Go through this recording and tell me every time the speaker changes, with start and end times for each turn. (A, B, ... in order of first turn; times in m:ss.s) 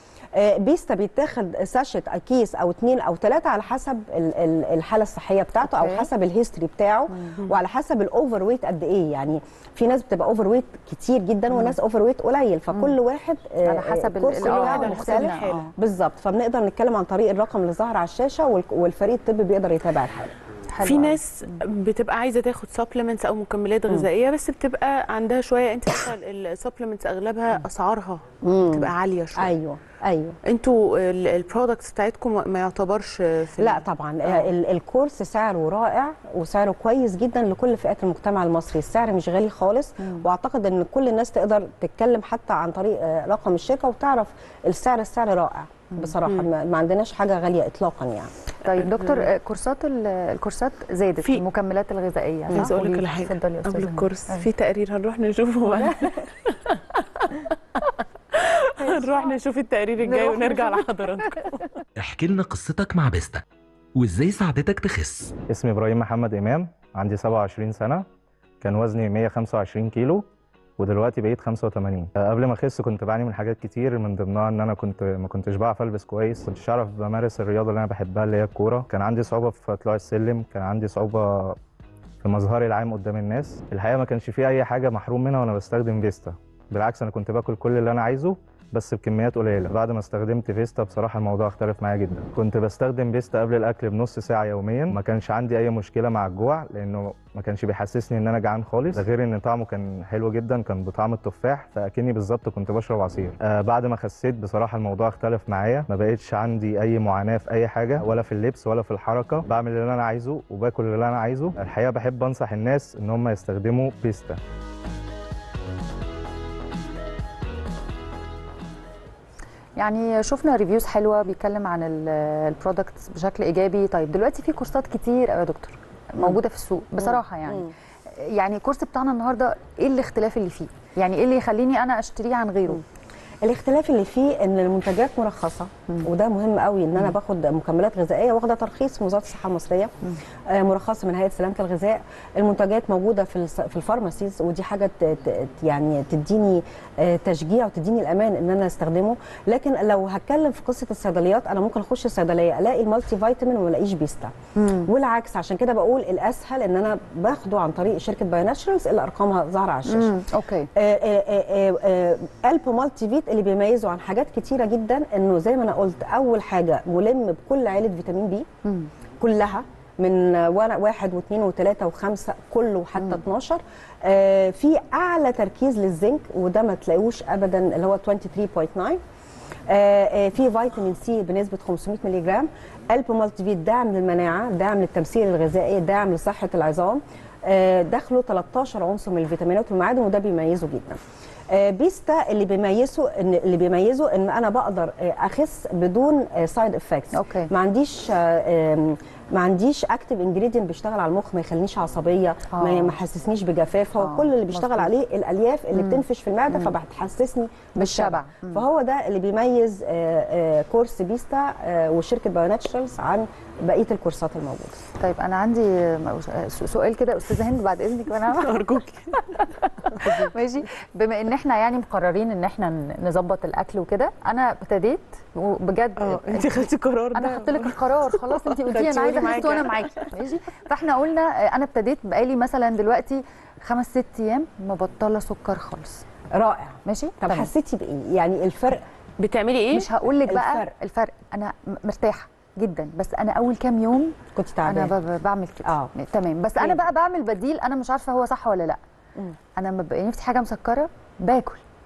0:00.3-0:20.3 A
0:05.6-0:06.1 B
0:13.6-0:15.7 B
0:14.4-0:15.6 C
0:20.7-0:21.2 B
0:20.8-0:29.5 C
0:28.4-0:30.4 A
0:30.4-0:34.5 C
0:33.6-0:48.3 A
0:48.6-0:54.5 B
0:52.5-1:01.6 C
1:00.1-1:01.3 B
1:02.0-1:05.3 D
1:05.5-1:08.0 E
1:08.6-1:10.3 E
1:10.8-1:21.6 E
1:22.2-1:54.4 E
1:59.8-2:12.8 B
2:07.0-2:07.7 A
2:13.4-2:19.9 A
2:20.5-2:34.3 A
2:34.5-2:34.9 B
2:34.8-2:40.2 A
2:39.9-2:40.7 B
2:40.8-2:48.5 A
2:48.6-2:48.9 B
2:49.2-2:59.0 A
2:59.7-3:11.0 A
3:11.5-3:34.8 A
3:17.1-3:17.5 B
3:22.5-3:23.0 B
3:24.0-3:24.9 B
3:25.7-3:26.7 B
3:27.8-3:28.6 B
3:35.0-3:38.8 B
3:38.4-3:39.2 C
3:39.9-3:40.3 C
3:40.1-3:56.0 B
3:46.0-3:49.8 C
3:56.3-3:58.8 A
3:56.8-3:57.5 B
3:59.2-3:59.9 C
3:59.7-4:08.8 B
4:00.3-4:00.7 A
4:04.3-4:04.9 A
4:05.6-4:05.9 A
4:09.6-4:11.6 B